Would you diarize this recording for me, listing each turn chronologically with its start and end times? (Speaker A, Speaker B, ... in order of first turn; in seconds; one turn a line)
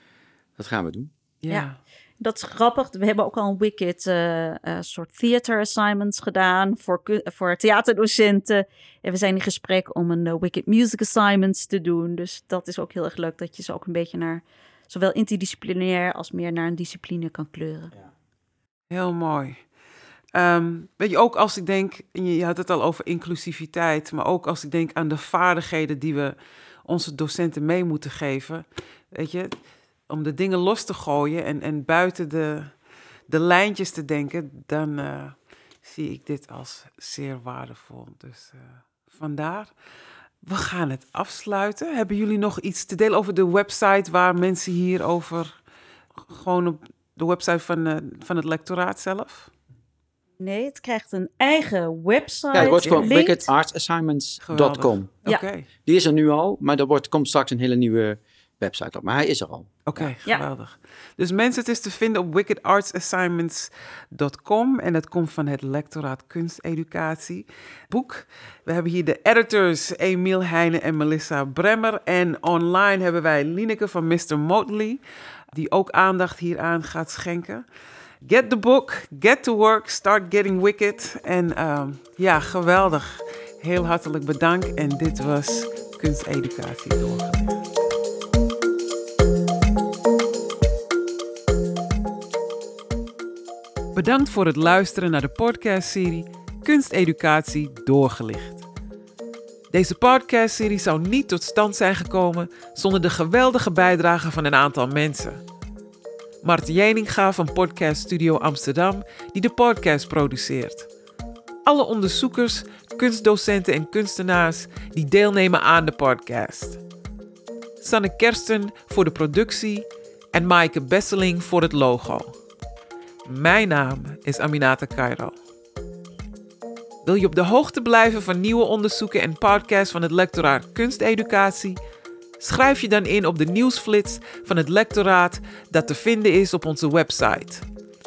Speaker A: 0.6-1.1
Speaker B: 1.4-1.8
Speaker C: 2.2-17.9
Speaker B: 18.9-19.6
Speaker B: 20.3-39.7
Speaker B: 40.4-45.6
Speaker B: 46.3-49.5
Speaker C: 50.4-53.5
Speaker A: 52.5-55.2
Speaker B: 52.5-53.1
Speaker B: 54.5-55.7
Speaker A: 55.8-60.1
Speaker B: 59.9-77.6
Speaker B: 78.2-87.6
Speaker B: 93.9-98.6
Speaker B: 99.7-105.4
Speaker B: 106.4-110.9
Speaker B: 111.6-116.8
Speaker B: 117.8-122.4
Speaker B: 123.2-125.4
Speaker B: 127.0-131.8
Speaker B: 132.4-137.7